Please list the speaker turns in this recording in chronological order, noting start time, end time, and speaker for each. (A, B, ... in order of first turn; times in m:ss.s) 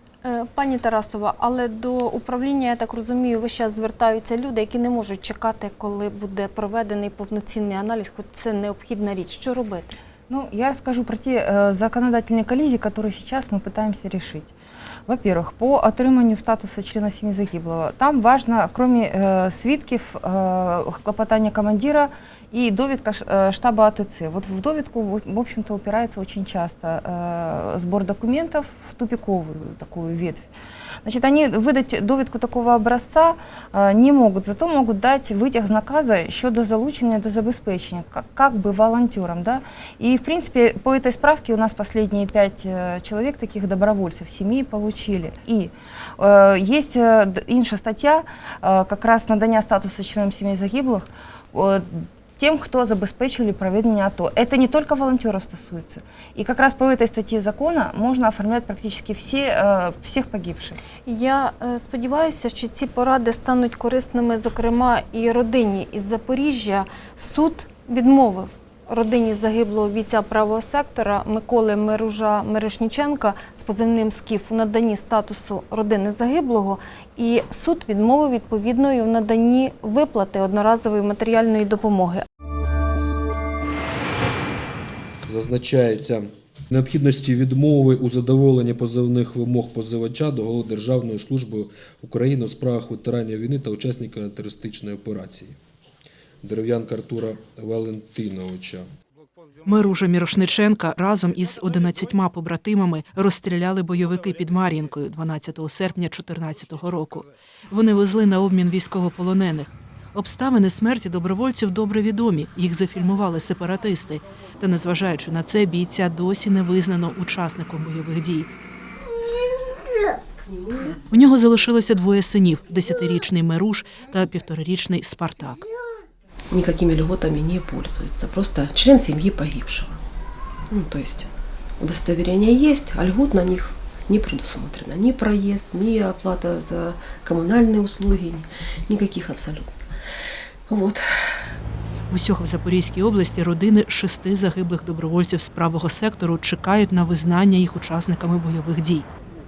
0:00.2-0:10.0 A
0:10.3-0:14.5 B
0:15.1-0:30.5 B
0:31.0-1:00.8 B
1:01.1-1:22.2 A
1:25.3-1:35.6 C
1:36.4-1:38.9 C
1:39.6-1:58.5 D
2:00.5-2:01.0 E
2:01.1-2:05.6 D
2:06.5-2:10.0 E
2:10.7-2:19.8 E
2:20.7-2:21.0 E
2:22.1-2:29.1 D